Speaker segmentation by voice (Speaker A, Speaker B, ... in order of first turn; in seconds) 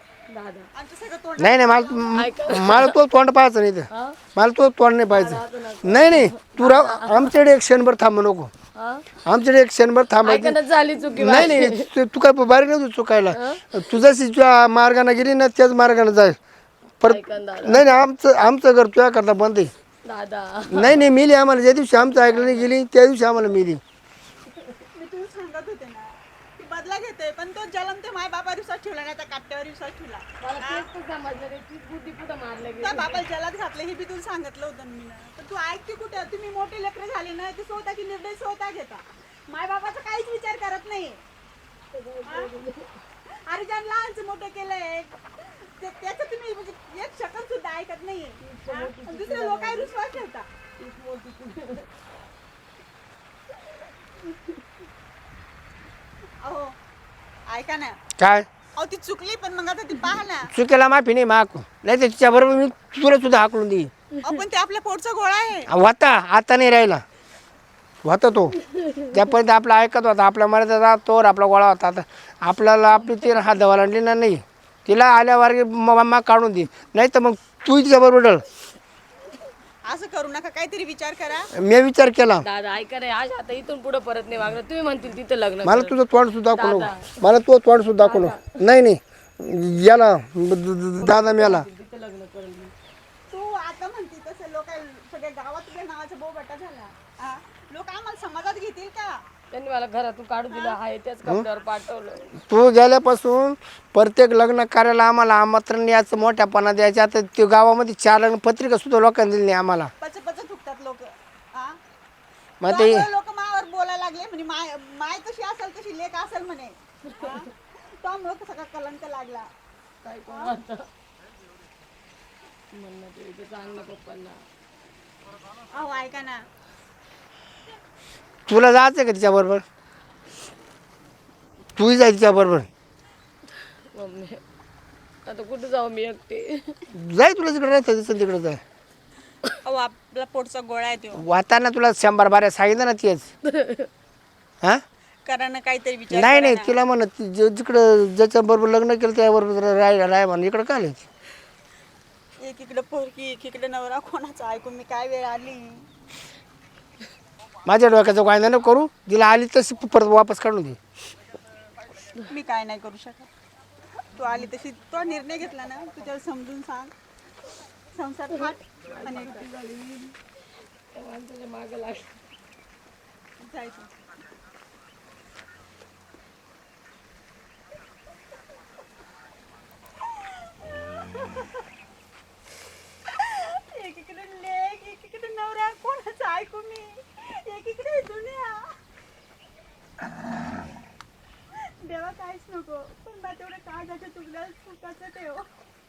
Speaker A: 0.3-0.7, 2.1-3.0, 3.9-4.2, 5.1-7.3, 8.8-9.1, 10.2-11.9, 13.4-13.7, 17.1-18.0, 20.1-20.9, 22.1-22.7, 30.4-33.2, 42.0-42.9, 48.4-50.2, 50.8-51.9, 82.4-86.0, 86.5-87.1, 88.0-88.5, 91.0-92.7, 99.5-102.3, 120.0-120.9, 122.7-124.4, 133.9-134.4, 135.3-136.8, 143.5-143.9, 168.3-170.1, 170.9-172.1
Speaker B: 0.8-1.9, 25.0-26.0, 26.6-30.9, 32.8-39.0, 39.5-41.1, 43.5-45.1, 45.8-48.3, 48.9-50.4, 57.5-57.9, 58.8-60.5, 64.4-65.6, 79.9-81.5, 93.3-99.1, 110.0-111.0, 112.7-116.7, 118.0-119.4, 125.8-126.4, 139.7-141.2, 145.3-146.7, 152.4-155.6, 162.3-163.3, 164.2-166.9, 168.0-169.3, 173.5-173.9, 183.2-186.8, 187.5-188.5, 191.9-195.4
Speaker C: 1.4-8.5, 9.2-10.6, 11.2-16.4, 17.0-19.7, 20.7-23.8, 58.2-58.5, 60.5-63.9, 65.7-67.0, 68.0-68.6, 69.1-78.4, 81.5-82.5, 85.6-91.7, 102.5-109.9, 112.6-113.1, 128.5-129.6, 131.8-132.7, 136.9-138.6, 141.2-143.3, 146.1-151.1, 157.7-160.8